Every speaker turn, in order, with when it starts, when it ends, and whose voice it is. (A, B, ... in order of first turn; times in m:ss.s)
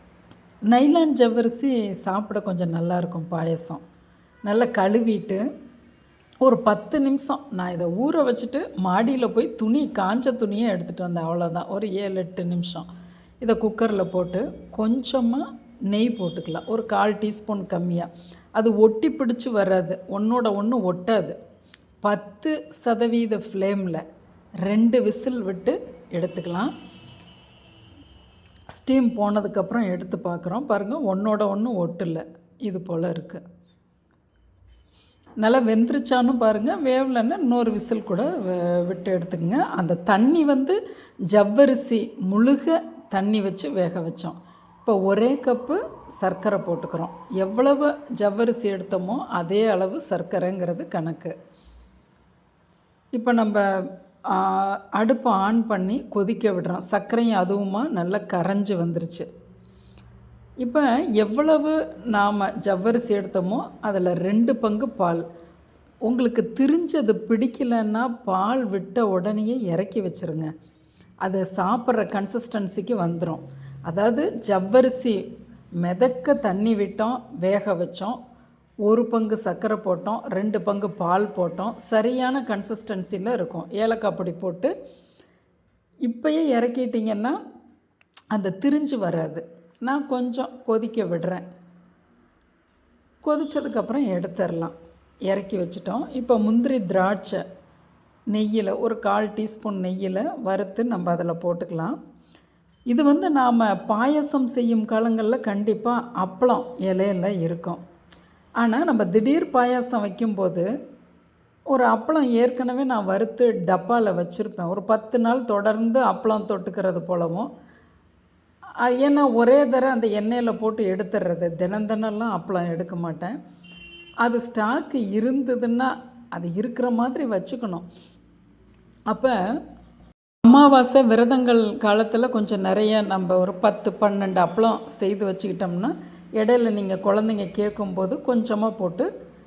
0:00.7-0:03.8 A
0:04.4-0:05.4 A
0:06.4-0:12.8 A
0:13.4-0:21.4 A
0:22.0-0:24.0 A
0:24.6-0:26.7 A
0:28.7-0:33.4 A
0:35.4-0:40.8 A
0:41.3-0:51.3 A
0:53.1-0:53.6 A
0:54.3-0:59.2 A
1:00.6-1:05.2 A
1:06.0-1:10.5 A
1:11.2-1:15.2 A
1:15.8-1:18.2 A
1:18.8-1:24.7 A
1:26.0-1:27.4 A
1:28.3-1:31.4 A
1:33.2-1:34.7 A
1:35.3-1:37.4 A
1:38.3-1:42.0 A
1:42.9-1:47.8 A
1:48.6-1:50.7 A
1:51.7-1:57.5 A
1:58.8-2:03.4 A
2:04.2-2:07.9 A
2:09.1-2:09.4 A
2:10.4-2:19.1 A